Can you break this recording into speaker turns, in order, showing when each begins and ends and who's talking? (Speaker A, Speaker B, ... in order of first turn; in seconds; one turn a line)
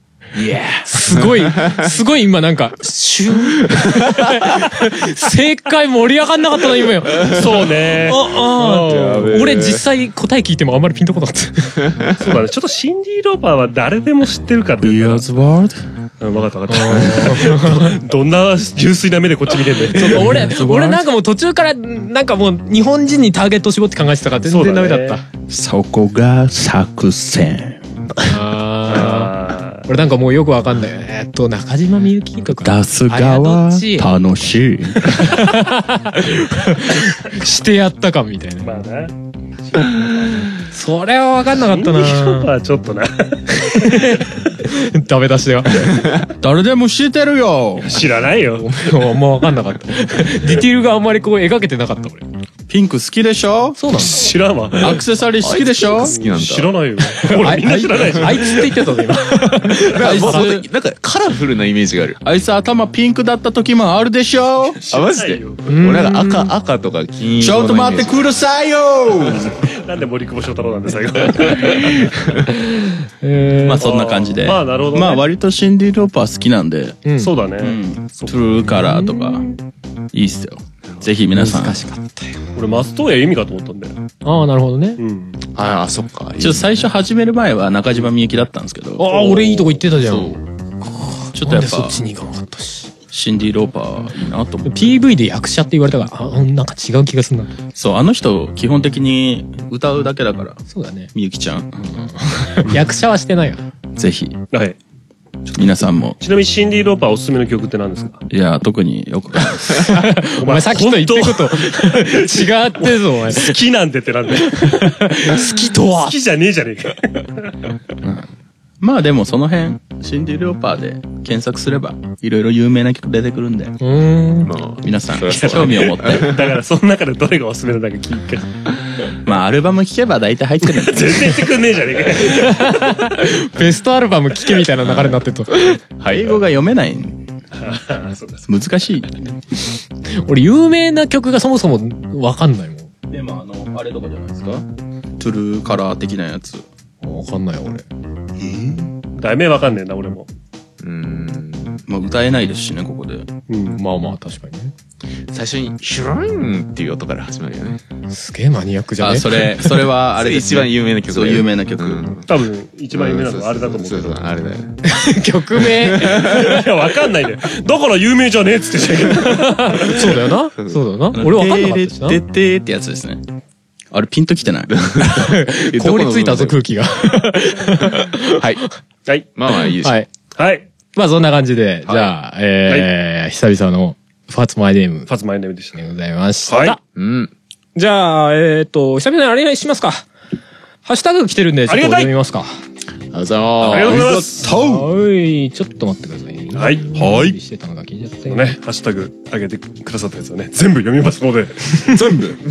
Speaker A: 0.3-0.9
Speaker B: 0.9-7.4
Speaker C: 1.1-1.9
Speaker C: 3.6-4.4
Speaker C: 7.1-7.7
Speaker D: 7.3-9.3
Speaker B: 8.1-11.8
Speaker C: 8.8-9.9
Speaker C: 11.9-12.4
Speaker D: 12.2-15.2
Speaker A: 14.8-15.8
Speaker D: 16.2-20.5
Speaker B: 16.7-17.9
Speaker B: 19.9-25.2
Speaker A: 20.3-21.0
Speaker D: 24.5-25.2
Speaker A: 25.5-27.8
Speaker B: 28.2-29.3
Speaker D: 28.9-29.9
Speaker B: 29.9-34.1
Speaker A: 32.6-35.3
Speaker B: 35.1-38.8
Speaker D: 38.6-39.1
Speaker D: 39.7-40.3
Speaker B: 40.6-42.5
Speaker D: 41.6-44.2
Speaker B: 43.7-46.1
Speaker A: 46.4-48.1
Speaker D: 47.9-48.9
Speaker B: 48.6-52.3
Speaker A: 52.7-53.8
Speaker B: 53.8-54.3
Speaker D: 54.0-55.0
Speaker A: 54.8-56.1
Speaker C: 55.4-56.9
Speaker D: 56.1-58.8
Speaker B: 57.4-60.5
Speaker C: 59.9-62.2
Speaker A: 60.0-60.7
Speaker A: 62.2-64.8
Speaker D: 64.8-65.6
Speaker C: 64.9-68.3
Speaker B: 65.7-66.5
Speaker A: 67.4-69.6
Speaker D: 69.6-72.1
Speaker B: 73.2-73.8
Speaker A: 73.7-77.0
Speaker D: 73.8-75.2
Speaker B: 77.1-77.3
Speaker D: 77.2-78.3
Speaker A: 77.6-79.5
Speaker B: 78.8-79.5
Speaker A: 80.1-81.8
Speaker B: 81.3-82.4
Speaker D: 82.5-84.0
Speaker B: 84.2-85.0
Speaker D: 85.0-85.4
Speaker C: 85.5-86.8
Speaker A: 86.4-89.3
Speaker B: 89.0-92.9
Speaker D: 89.1-89.7
Speaker A: 89.9-90.4
Speaker A: 91.3-92.0
Speaker A: 93.1-94.8
Speaker B: 94.7-97.5
Speaker A: 97.8-100.6
Speaker B: 100.7-101.1
Speaker A: 101.1-101.9
Speaker B: 102.0-103.6
Speaker A: 104.0-104.4
Speaker D: 104.5-104.8
Speaker A: 105.5-106.2
Speaker D: 106.2-108.2
Speaker A: 108.3-109.9
Speaker B: 109.7-113.5
Speaker D: 110.4-117.6
Speaker B: 114.5-116.2
Speaker A: 118.0-118.3
Speaker A: 118.8-123.8
Speaker B: 123.8-124.5
Speaker C: 124.4-126.5
Speaker A: 124.8-126.3
Speaker D: 125.3-128.5
Speaker A: 129.2-131.4
Speaker D: 130.7-133.0
Speaker B: 132.3-135.8
Speaker C: 136.0-136.4
Speaker A: 136.1-137.2
Speaker D: 137.6-138.4
Speaker A: 138.5-139.2
Speaker B: 140.1-142.9
Speaker A: 143.1-144.7
Speaker A: 145.2-146.7
Speaker B: 147.0-147.8
Speaker A: 148.5-148.8
Speaker D: 149.2-150.3
Speaker C: 150.8-151.8
Speaker A: 151.9-153.3
Speaker D: 153.5-153.8
Speaker B: 153.7-154.7
Speaker C: 155.3-157.8
Speaker B: 158.1-159.7
Speaker A: 159.0-162.1
Speaker C: 160.2-162.3
Speaker D: 162.3-164.2
Speaker C: 162.9-164.8
Speaker B: 164.8-166.6
Speaker C: 165.6-166.6
Speaker D: 166.2-170.1
Speaker B: 169.4-172.2
Speaker C: 170.6-170.8
Speaker A: 171.1-173.2
Speaker A: 173.9-174.8
Speaker C: 174.7-176.6
Speaker B: 175.0-178.7
Speaker C: 177.9-178.7
Speaker C: 179.3-180.0
Speaker B: 179.8-180.1
Speaker D: 180.4-180.7
Speaker B: 181.0-185.1
Speaker D: 181.9-182.1
Speaker D: 185.1-185.8
Speaker B: 185.7-186.8
Speaker D: 186.5-186.8
Speaker C: 186.9-187.3
Speaker B: 187.8-190.1
Speaker B: 190.8-192.6
Speaker D: 191.7-192.1
Speaker C: 193.1-194.3
Speaker A: 193.6-194.9
Speaker D: 193.7-194.5
Speaker B: 194.4-198.6
Speaker D: 196.5-196.8
Speaker A: 196.9-197.4
Speaker D: 198.3-202.0
Speaker A: 201.9-202.4